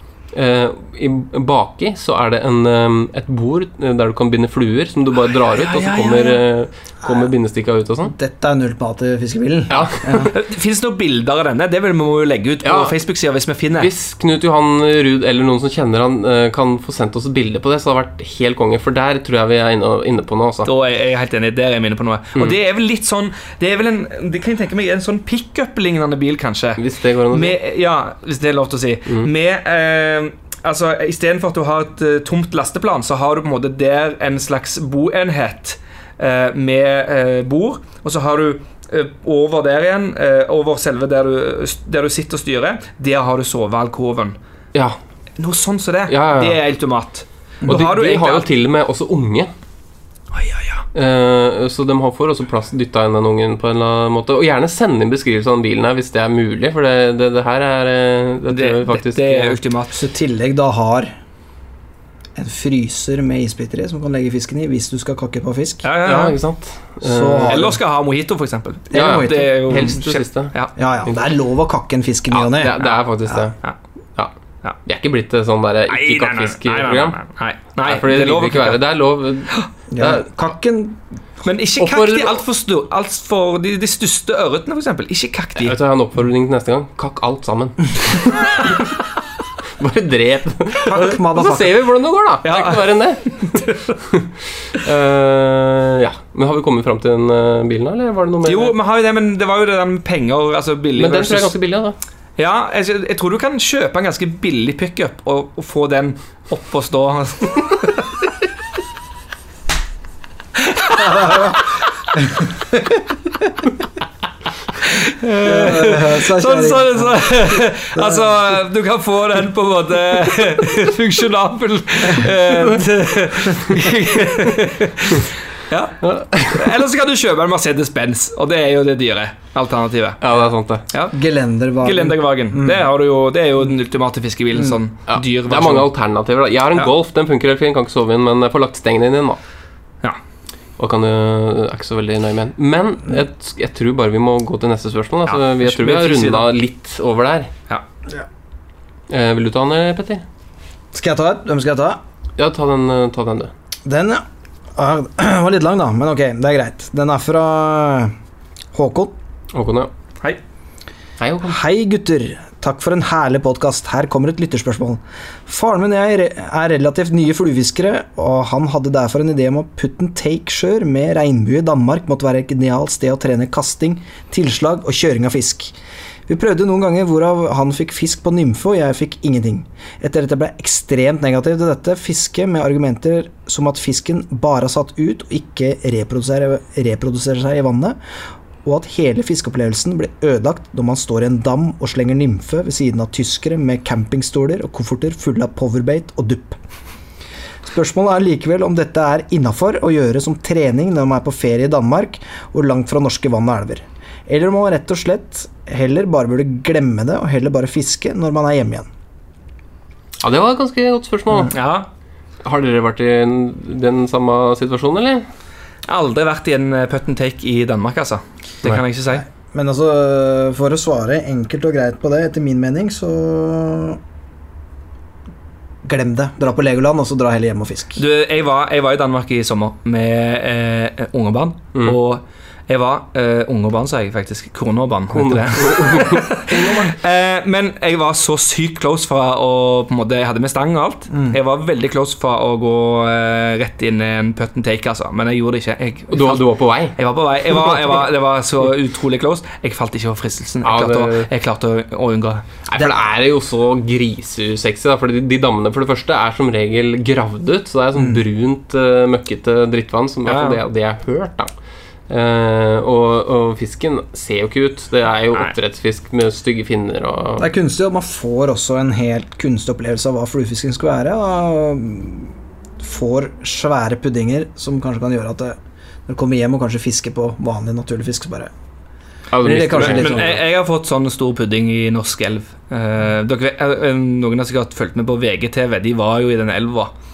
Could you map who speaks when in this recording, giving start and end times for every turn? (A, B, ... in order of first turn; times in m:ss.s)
0:00.3-0:08.1 A
0:05.4-0:06.4 B
0:08.0-0:10.3 C
0:09.7-0:10.3 A
0:10.2-0:13.9 B
0:12.6-0:13.0 A
0:13.8-0:20.7 A
0:20.7-0:44.4 B
0:26.8-0:27.6 A
0:45.4-0:48.5 B
0:46.1-0:46.6 A
0:47.7-0:49.5 A
0:50.3-0:50.8 B
0:50.9-0:59.6 A
0:58.5-1:00.0 B
0:59.9-1:01.1 C
1:02.4-1:05.8 C
1:05.8-1:06.4 B
1:06.0-1:07.7 A
1:07.0-1:07.8 C
1:07.4-1:10.7 B
1:08.9-1:10.0 C
1:08.9-1:10.5 A
1:10.8-1:12.7 C
1:12.3-1:13.6 A
1:14.8-1:17.2 A
1:15.9-1:18.8 B
1:17.8-1:20.4 A
1:19.9-1:21.0 C
1:21.4-1:25.8 B
1:21.8-1:22.4 A
1:25.6-1:28.8 A
1:29.8-1:38.8 A
1:30.9-1:31.7 C
1:32.4-1:33.9 B
1:38.5-1:41.5 B
1:41.0-1:42.0 A
1:42.4-1:48.0 B
1:50.7-1:51.6 B
1:54.9-2:10.2 B
1:55.4-1:57.2 C
1:57.9-1:58.2 C
2:06.0-2:06.7 A
2:10.2-2:10.8 A
2:10.9-2:11.2 B
2:11.1-2:12.8 C
2:11.8-2:15.9 B
2:15.1-2:19.4 A
2:20.8-2:27.5 A
2:25.3-2:26.5 B
2:29.1-2:30.2 A
2:30.9-2:32.0 C
2:32.4-2:33.5 A
2:33.8-2:34.2 C
2:34.8-2:38.1 C
2:38.7-2:39.2 C
2:39.5-2:39.9 A
2:41.2-2:41.6 A
2:41.4-2:55.7 C
2:56.3-3:08.0 C
3:08.6-3:16.6 C
3:17.6-3:28.9 C
3:30.2-3:31.6 A
3:31.5-3:31.9 B
3:32.4-3:35.2 A
3:35.9-3:39.2 B
3:39.1-3:44.0 C
3:45.8-3:48.0 C
3:48.0-4:12.5 B
3:55.1-3:56.4 A
3:56.5-3:56.9 C
4:01.1-4:01.4 C
4:06.1-4:07.0 A
4:10.6-4:11.3 A
4:12.7-4:21.5 A
4:18.0-4:18.2 C
4:20.3-4:20.6 B
4:22.1-4:27.5 A
4:27.4-4:38.5 C
4:39.3-4:40.4 A
4:39.4-4:40.4 C
4:39.8-4:46.9 B